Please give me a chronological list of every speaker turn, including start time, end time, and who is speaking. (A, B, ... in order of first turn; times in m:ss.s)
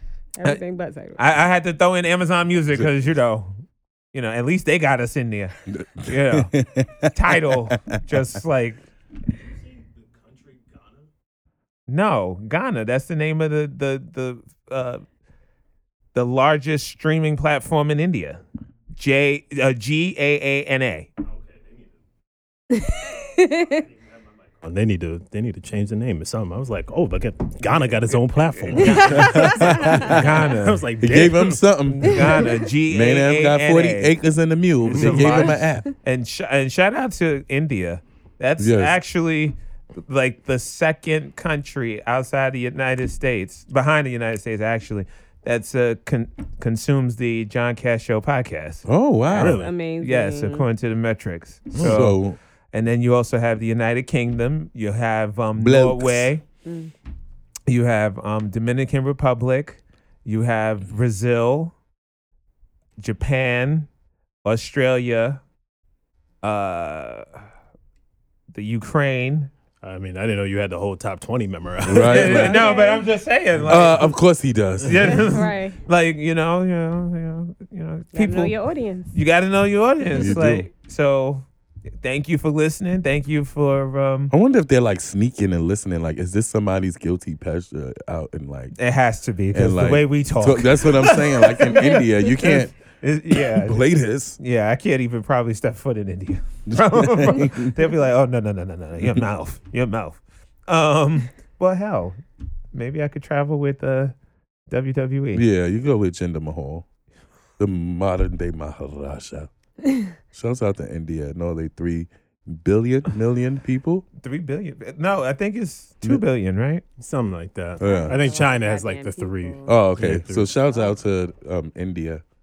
0:00.4-0:01.2 A
0:01.2-0:03.5 B
0:04.1-0:06.5 B
0:05.7-0:07.8 C
0:07.1-0:08.8 B
0:09.7-0:11.0 D
0:11.9-0:15.0 B
0:16.1-0:18.4 B
0:19.0-0:21.1 B
0:22.7-0:23.8 A
0:24.6-0:31.6 D
0:28.7-0:30.9 B
0:28.9-0:29.9 A
0:29.2-0:30.4 C
0:31.0-0:35.9 C
0:31.9-0:34.1 B
0:34.8-0:35.5 D
0:34.9-0:56.4 B
0:38.6-0:39.0 C
0:48.9-0:49.6 C
0:49.3-0:49.7 D
0:49.6-0:50.6 A
0:51.7-0:52.0 D
0:51.8-0:52.4 C
0:55.6-0:56.3 C
0:56.6-0:56.9 A
0:57.7-1:01.7 B
1:03.0-1:03.9 B
1:04.4-1:05.4 B
1:06.4-1:07.3 B
1:08.5-1:09.5 B
1:09.8-1:12.6 D
1:11.8-1:12.6 C
1:12.0-1:14.1 B
1:12.2-1:13.0 A
1:13.7-1:15.3 C
1:14.8-1:18.5 B
1:15.1-1:15.7 A
1:18.1-1:19.1 A
1:19.1-1:21.4 B
1:20.1-1:20.7 C
1:22.0-1:24.3 B
1:24.3-1:28.7 C
1:28.7-1:42.2 B
1:29.5-1:32.7 C
1:33.3-1:34.4 C
1:36.7-1:37.7 C
1:42.7-1:44.1 B
1:44.7-1:45.4 B
1:45.3-1:46.8 C
1:47.6-1:49.5 C
1:50.3-1:54.0 C
1:54.2-1:56.8 B
1:57.0-2:00.5 D
1:57.8-1:58.2 C
1:57.8-1:59.8 A
1:59.6-2:02.2 C